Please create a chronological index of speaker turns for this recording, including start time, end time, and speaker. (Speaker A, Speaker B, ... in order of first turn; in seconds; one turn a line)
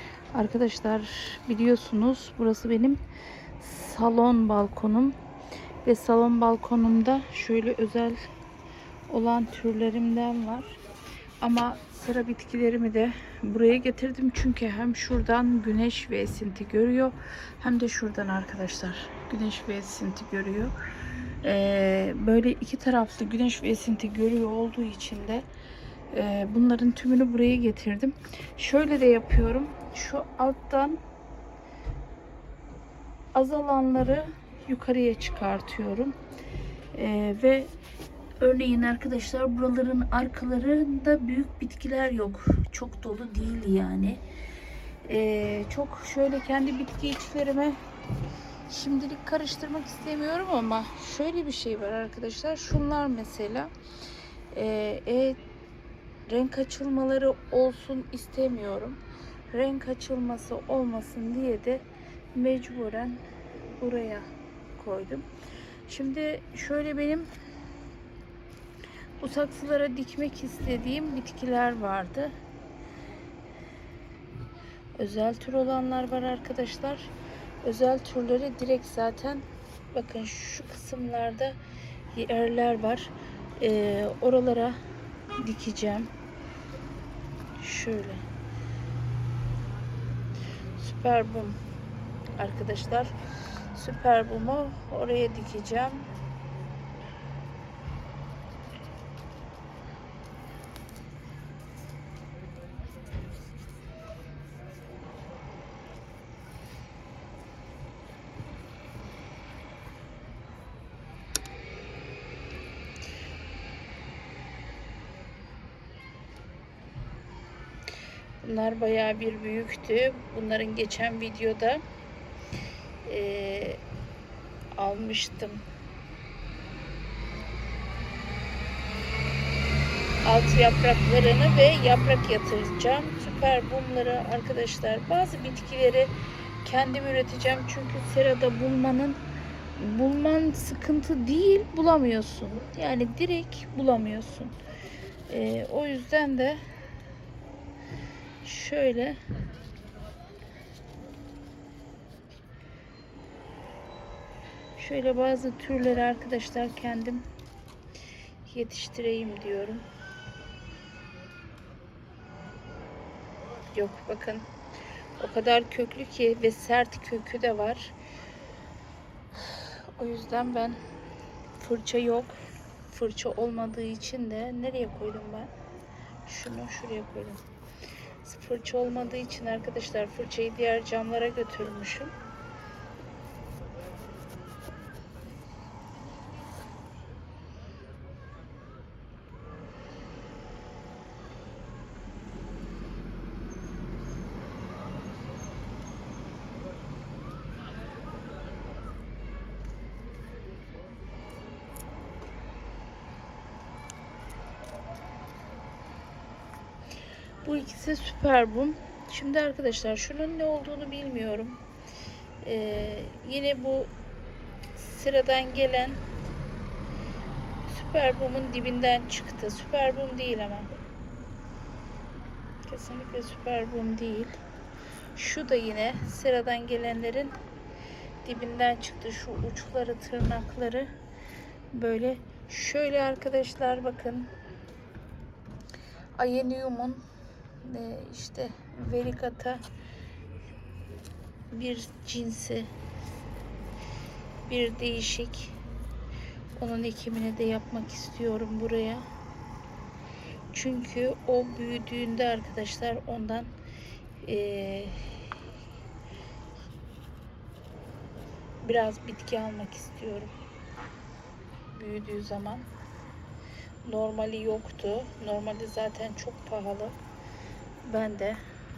Speaker A: 0.3-3.0
Speaker A: 3.6-5.2
Speaker A: 5.8-8.2
Speaker A: 9.1-10.8
Speaker A: 11.4-20.8
Speaker A: 21.4-25.5
Speaker A: 26.1-31.0
Speaker A: 33.3-36.2
Speaker A: 36.9-37.7
Speaker A: 38.4-44.2
Speaker A: 45.0-47.8
Speaker A: 48.7-53.7
Speaker A: 54.5-55.4
Speaker A: 56.3-65.3
Speaker A: 65.9-67.3
Speaker A: 69.2-72.3
Speaker A: 75.0-81.6
Speaker A: 82.1-84.8
Speaker A: 85.4-86.1
Speaker A: 87.6-88.3
Speaker A: 90.8-91.6
Speaker A: 92.4-96.1
Speaker A: 118.4-121.8
Speaker A: 123.0-123.8
Speaker A: 124.8-125.7
Speaker A: 130.2-139.2
Speaker A: 139.8-144.5
Speaker A: 145.3-146.6
Speaker A: 148.4-149.2
Speaker A: 154.8-157.3
Speaker A: 158.5-159.9
Speaker A: 163.7-164.5
Speaker A: 165.2-168.0
Speaker A: 169.3-170.8
Speaker A: 171.6-175.5
Speaker A: 176.2-177.4
Speaker A: 178.2-182.1
Speaker A: 207.4-211.6
Speaker A: 212.4-213.9
Speaker A: 214.7-216.1
Speaker A: 217.7-220.7
Speaker A: 222.7-224.4
Speaker A: 225.2-227.4
Speaker A: 228.2-230.9
Speaker A: 231.7-234.3
Speaker A: 236.2-237.0
Speaker A: 237.6-239.6
Speaker A: 241.5-242.7
Speaker A: 244.5-245.6
Speaker A: 246.6-249.1
Speaker A: 250.5-253.5
Speaker A: 254.2-255.3
Speaker A: 258.6-260.4
Speaker A: 261.7-262.7
Speaker A: 263.9-267.0
Speaker A: 267.8-268.4